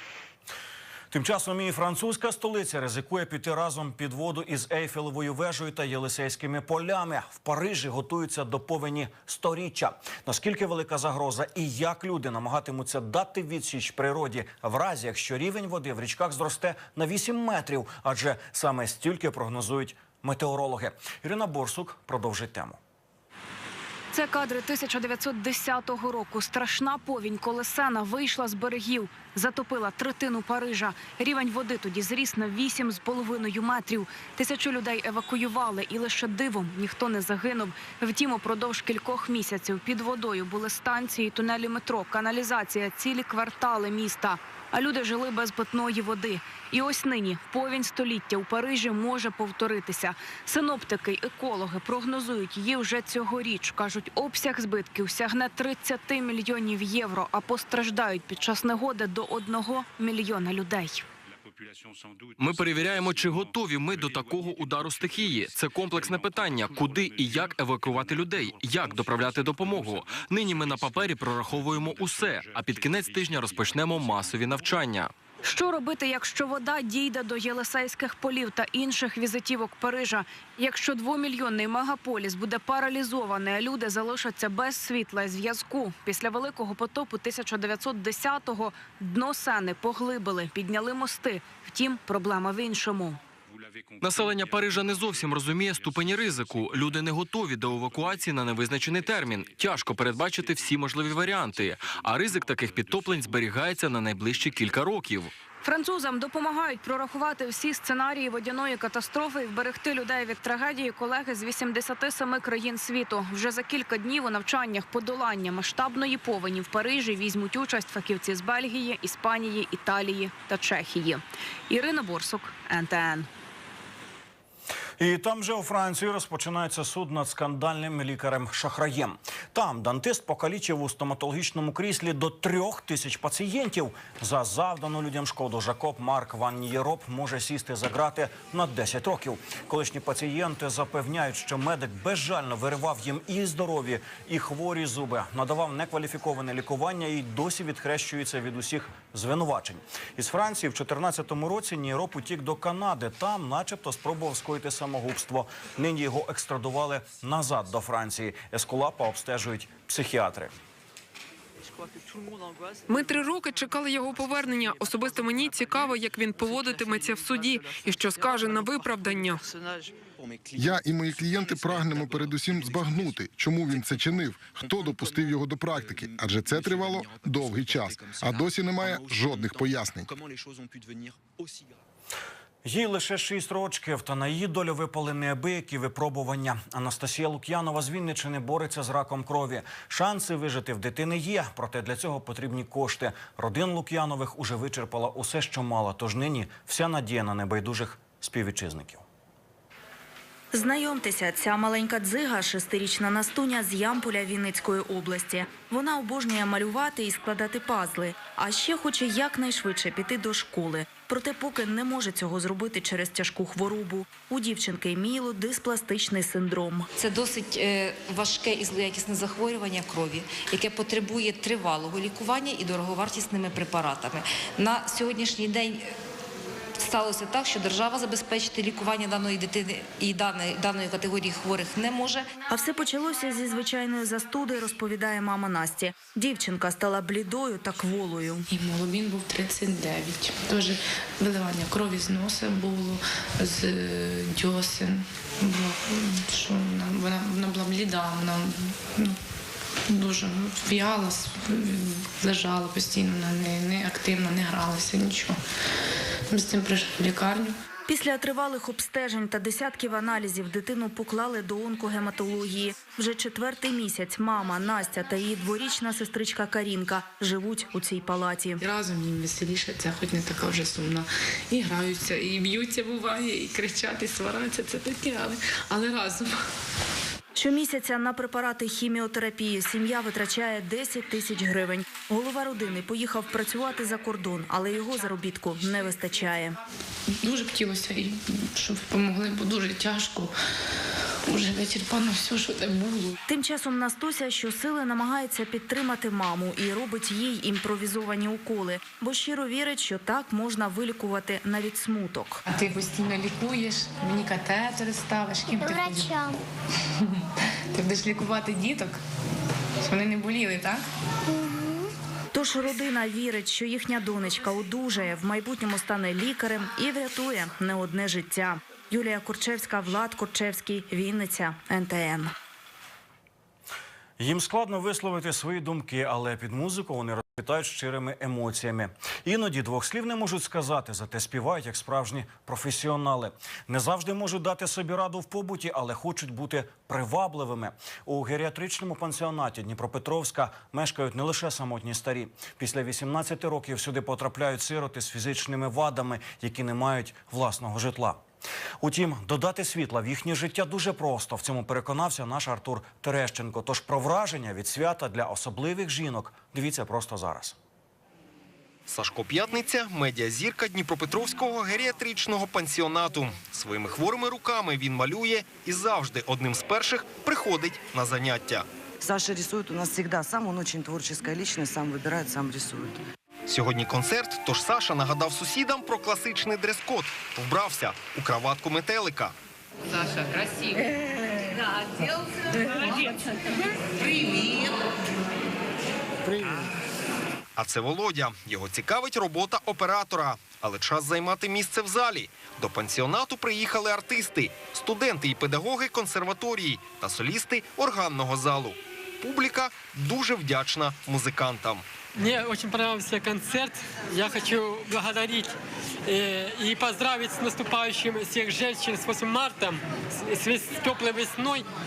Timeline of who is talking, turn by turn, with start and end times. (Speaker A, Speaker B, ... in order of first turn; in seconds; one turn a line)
Speaker A: 1.1-22.8
Speaker B: 24.1-61.0
Speaker C: 62.4-75.1
Speaker B: 75.4-93.2
Speaker C: 94.0-105.3
Speaker B: 105.6-123.3
Speaker A: 125.0-160.6
Speaker D: 162.9-169.4
Speaker E: 170.6-180.1
Speaker A: 182.6-199.0
Speaker F: 200.5-216.9
Speaker G: 217.0-225.9
Speaker G: 226.8-232.3
Speaker F: 232.5-238.5
Speaker H: 238.5-249.2
Speaker H: 249.9-255.4
Speaker H: 256.3-257.6
Speaker F: 257.9-268.6
Speaker H: 268.6-276.4
Speaker F: 277.4-286.6
Speaker H: 287.1-290.4
Speaker H: 291.2-293.2
Speaker F: 293.3-302.4
Speaker H: 302.5-306.2
Speaker H: 307.7-309.0
Speaker H: 309.8-310.9
Speaker F: 312.3-322.3
Speaker A: 324.2-348.2
Speaker A: 348.8-357.6
Speaker I: 358.9-368.6
Speaker J: 369.0-373.0
Speaker I: 373.5-379.3
Speaker I: 387.6-401.8
Speaker K: 402.2-405.5
Speaker K: 406.1-411.7